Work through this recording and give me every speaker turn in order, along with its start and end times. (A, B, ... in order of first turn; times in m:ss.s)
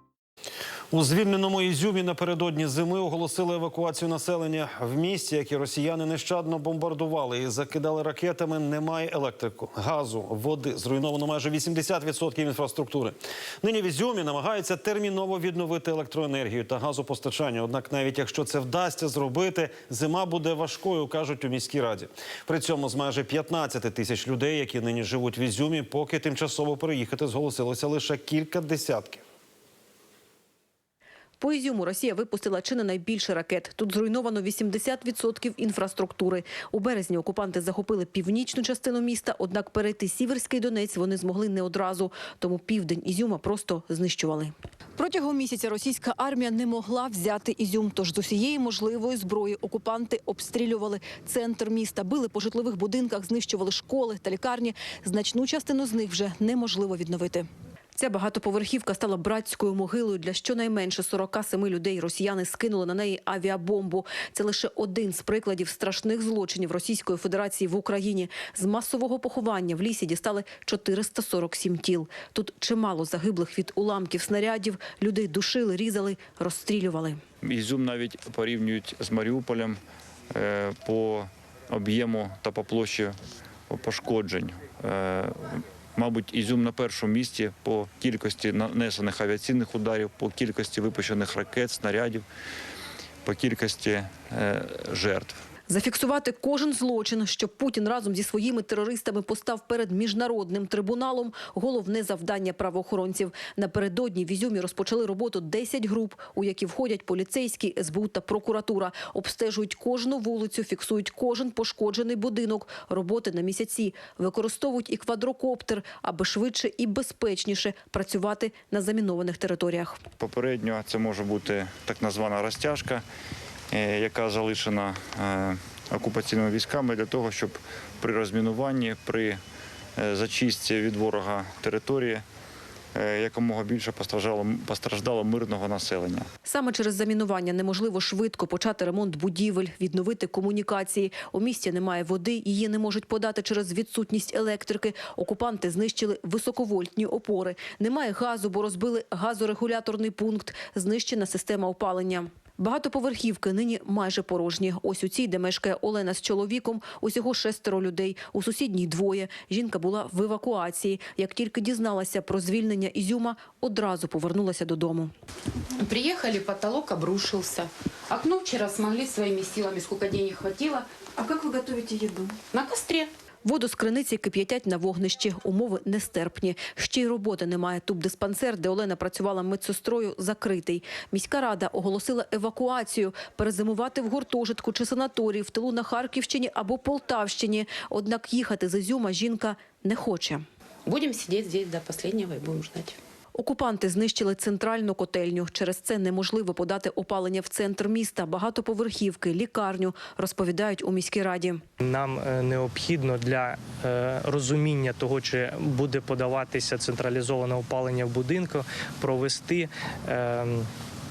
0:00.9-0:29.2 A
0:31.4-1:17.2 B
1:17.4-1:19.8 C
1:20.3-1:23.2 C
1:23.7-1:32.2 C
1:33.2-1:35.4 C
1:35.7-2:00.0 B
2:00.2-2:03.0 C
2:03.7-2:09.4 C
2:10.0-2:12.2 C
2:13.0-2:16.3 C
2:16.5-2:45.1 B
2:45.8-2:50.9 D
2:51.2-2:52.4 B
2:52.5-2:53.1 D
2:53.4-3:10.4 B
3:10.9-3:13.0 D
3:13.3-3:21.6 B
3:21.8-3:30.7 E